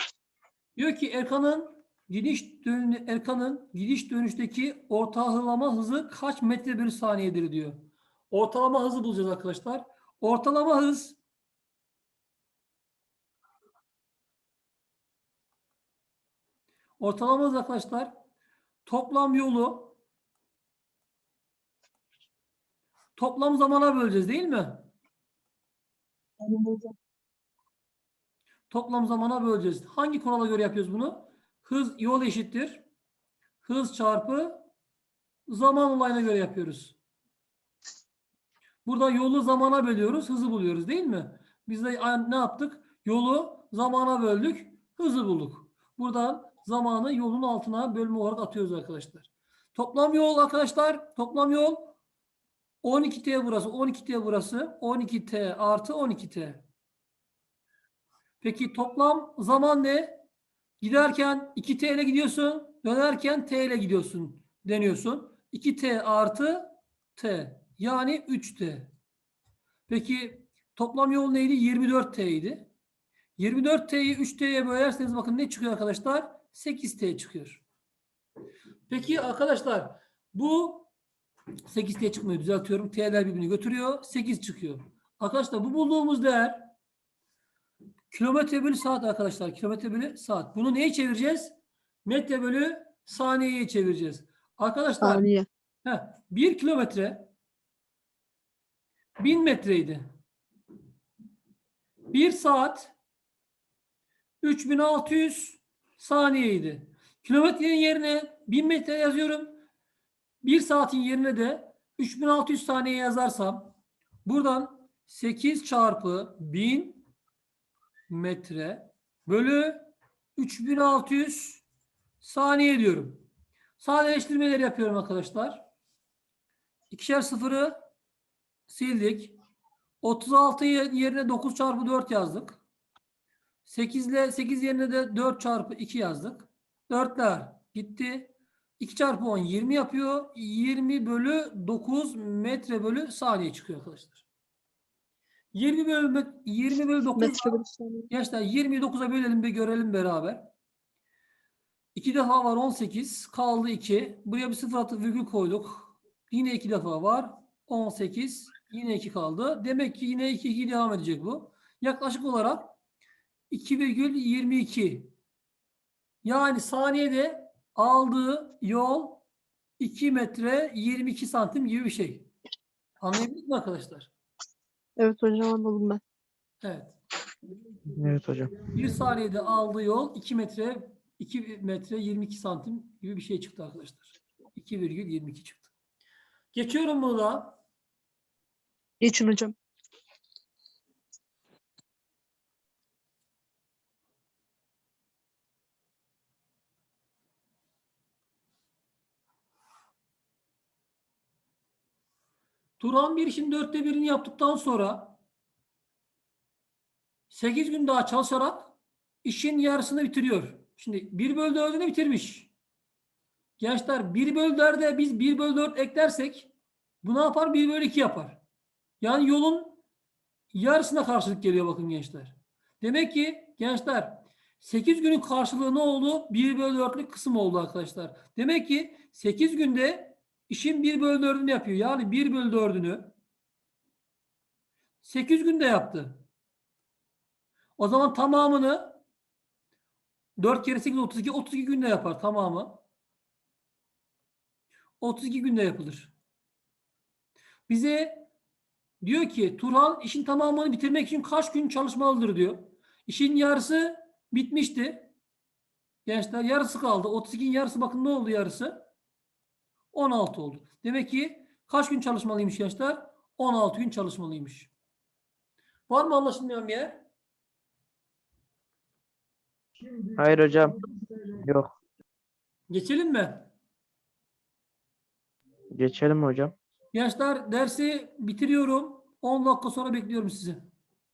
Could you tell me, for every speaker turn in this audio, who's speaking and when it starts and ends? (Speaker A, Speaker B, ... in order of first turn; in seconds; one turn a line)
Speaker A: 0.8-11.2
Speaker A: 17.0-18.1
Speaker A: 18.9-20.0
Speaker A: 23.2-24.9
Speaker B: 26.4-26.9
Speaker A: 28.7-32.8
Speaker A: 33.6-34.6
Speaker A: 35.5-37.0
Speaker A: 38.9-52.0
Speaker A: 52.8-56.6
Speaker A: 58.4-60.2
Speaker A: 60.8-68.9
Speaker A: 69.9-72.7
Speaker A: 73.4-77.6
Speaker A: 78.9-80.9
Speaker A: 81.7-86.7
Speaker A: 88.1-91.5
Speaker A: 92.0-95.3
Speaker B: 95.0-95.5
Speaker A: 95.8-97.3
Speaker A: 99.2-100.1
Speaker A: 102.1-103.0
Speaker A: 104.4-109.6
Speaker A: 110.4-117.0
Speaker A: 118.1-121.7
Speaker A: 122.2-123.2
Speaker A: 123.8-125.7
Speaker A: 126.9-127.8
Speaker A: 128.7-129.4
Speaker A: 130.0-132.6
Speaker A: 133.7-144.2
Speaker A: 145.5-147.6
Speaker B: 147.2-148.1
Speaker A: 148.1-150.5
Speaker A: 151.9-162.8
Speaker A: 163.5-165.1
Speaker A: 166.2-169.2
Speaker A: 169.8-172.3
Speaker A: 173.0-174.1
Speaker B: 175.0-176.0
Speaker A: 176.6-177.0
Speaker C: 177.9-178.6
Speaker A: 178.7-185.7
Speaker A: 186.5-187.6
Speaker B: 189.0-189.6
Speaker A: 202.8-205.2
Speaker A: 207.3-212.5
Speaker A: 213.6-218.4
Speaker A: 219.0-219.8
Speaker A: 220.5-233.2
Speaker A: 235.0-236.2
Speaker A: 237.8-239.0
Speaker A: 240.4-242.8
Speaker A: 245.0-246.1
Speaker A: 247.7-248.3
Speaker A: 249.0-255.1
Speaker A: 256.0-258.9
Speaker A: 259.9-264.7
Speaker A: 265.9-267.1
Speaker C: 270.2-270.8
Speaker C: 271.4-271.8
Speaker A: 272.7-273.5
Speaker C: 275.7-276.5
Speaker A: 276.9-280.7